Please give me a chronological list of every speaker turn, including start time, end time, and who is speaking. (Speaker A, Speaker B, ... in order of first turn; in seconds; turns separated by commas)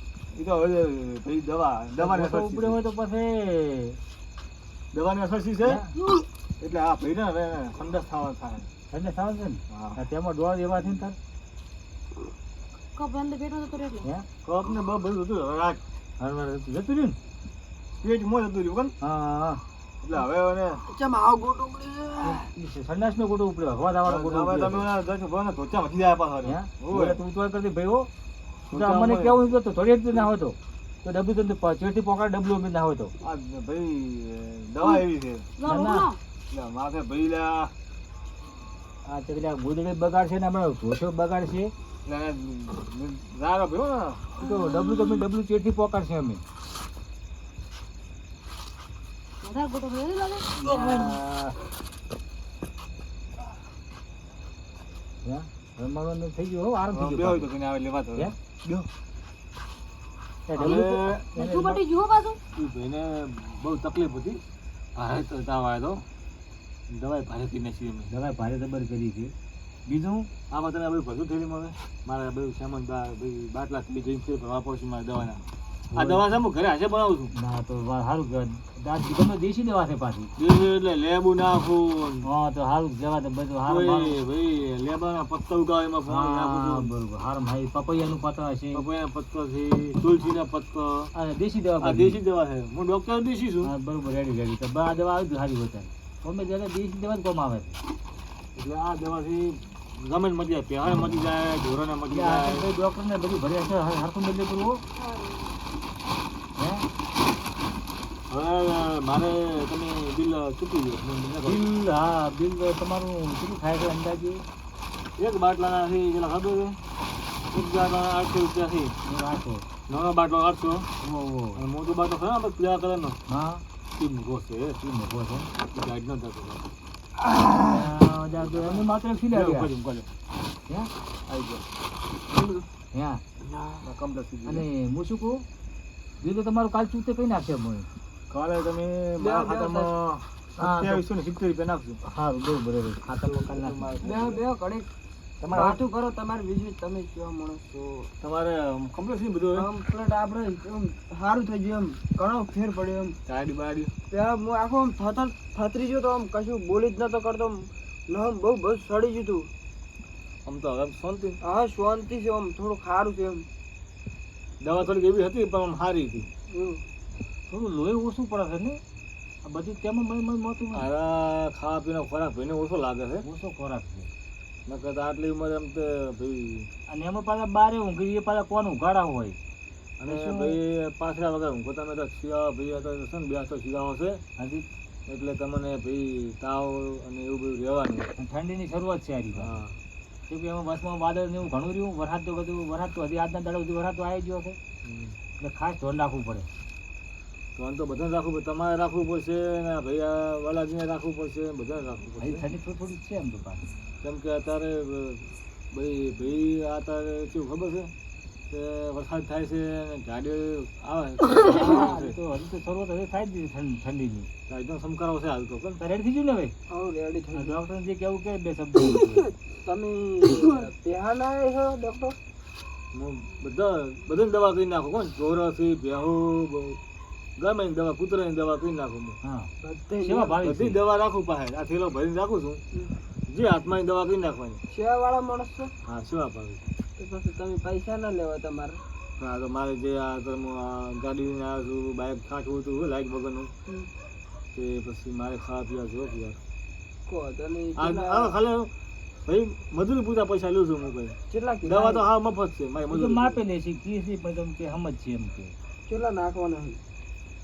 Speaker A: 0.3-2.8, Speaker B: 1.9-4.0, Speaker A: 4.9-5.8, Speaker B: 5.6-5.9, Speaker C: 6.0-6.2, Speaker A: 6.6-8.7, Speaker B: 8.9-11.2, Speaker A: 9.7-10.0, Speaker C: 12.9-14.1, Speaker A: 14.4-15.8, Speaker B: 16.2-17.2, Speaker A: 18.0-18.9, Speaker B: 19.0-19.6, Speaker A: 20.0-20.8, Speaker D: 20.9-22.5, Speaker B: 22.2-24.9, Speaker A: 24.0-27.2, Speaker B: 26.4-28.1, Speaker A: 28.7-29.4, Speaker B: 28.7-33.1, Speaker A: 33.2-35.5, Speaker C: 35.6-36.2, Speaker B: 35.6-36.1, Speaker A: 36.5-37.7, Speaker B: 39.0-41.7, Speaker A: 42.0-44.3, Speaker C: 44.4-45.2, Speaker B: 44.4-46.4, Speaker C: 49.4-51.1, Speaker B: 50.6-51.5, Speaker B: 55.2-57.5, Speaker A: 56.9-58.9, Speaker B: 60.5-61.8, Speaker A: 60.5-61.3, Speaker C: 61.3-62.4, Speaker A: 62.5-64.4, Speaker A: 65.0-66.0, Speaker A: 66.9-68.1, Speaker B: 68.1-69.3, Speaker B: 69.8-70.3, Speaker A: 70.5-75.4, Speaker B: 75.9-76.2, Speaker A: 75.9-77.3, Speaker B: 77.3-80.3, Speaker A: 80.4-82.3, Speaker B: 82.2-84.2, Speaker A: 83.6-86.9, Speaker B: 86.1-88.8, Speaker A: 88.7-91.1, Speaker B: 91.1-92.2, Speaker A: 91.8-93.7, Speaker B: 93.6-97.8, Speaker A: 98.5-102.7, Speaker B: 100.9-101.2, Speaker B: 102.1-104.8, Speaker C: 105.0-105.6, Speaker B: 106.6-106.8, Speaker A: 108.3-111.7, Speaker B: 111.4-114.4, Speaker A: 115.2-116.8, Speaker A: 117.5-118.9, Speaker B: 119.0-119.7, Speaker A: 119.9-120.9, Speaker B: 121.0-121.6, Speaker A: 121.5-123.2, Speaker B: 123.3-123.6, Speaker A: 124.0-124.8, Speaker B: 124.8-125.5, Speaker A: 125.6-126.6, Speaker D: 127.5-127.8, Speaker B: 127.7-129.7, Speaker A: 128.4-130.1, Speaker A: 131.3-131.6, Speaker D: 132.3-132.6, Speaker B: 132.9-133.2, Speaker D: 133.4-133.8, Speaker A: 133.8-134.7, Speaker B: 134.4-135.4, Speaker B: 136.2-137.9, Speaker A: 138.3-142.0, Speaker D: 139.2-139.9, Speaker B: 140.6-141.0, Speaker B: 142.0-144.3, Speaker A: 143.3-144.4, Speaker D: 144.0-144.9, Speaker A: 145.4-145.8, Speaker D: 145.5-148.1, Speaker A: 148.2-149.7, Speaker D: 149.5-153.2, Speaker A: 153.3-153.9, Speaker D: 154.1-159.5, Speaker A: 160.4-161.4, Speaker D: 161.4-163.5, Speaker A: 164.6-166.3, Speaker D: 166.5-166.8, Speaker B: 167.5-168.8, Speaker B: 169.4-170.9, Speaker A: 170.7-173.2, Speaker B: 173.2-174.1, Speaker A: 174.7-176.7, Speaker B: 176.9-179.4, Speaker A: 180.0-184.2, Speaker B: 180.1-180.6, Speaker B: 184.4-184.6, Speaker A: 185.1-188.1, Speaker B: 188.2-189.6, Speaker A: 189.3-189.8, Speaker B: 190.3-194.6, Speaker A: 194.8-195.2, Speaker B: 195.4-196.5, Speaker A: 197.6-202.5, Speaker B: 202.2-203.8, Speaker A: 204.0-207.9, Speaker A: 208.5-212.2, Speaker B: 211.4-214.3, Speaker A: 214.5-215.8, Speaker B: 215.8-216.5, Speaker D: 216.7-217.6, Speaker B: 217.3-219.3, Speaker D: 219.5-222.2, Speaker A: 222.9-226.8, Speaker A: 227.4-229.2, Speaker B: 229.2-230.8, Speaker D: 229.6-230.4, Speaker A: 230.4-232.6, Speaker A: 233.3-234.6, Speaker D: 234.7-235.7, Speaker A: 235.8-236.6, Speaker D: 237.0-238.8, Speaker A: 239.2-243.5, Speaker A: 244.5-246.4, Speaker D: 247.1-248.4, Speaker A: 247.8-248.7, Speaker A: 249.2-253.4, Speaker D: 251.3-252.1, Speaker B: 252.9-255.5, Speaker D: 255.9-256.8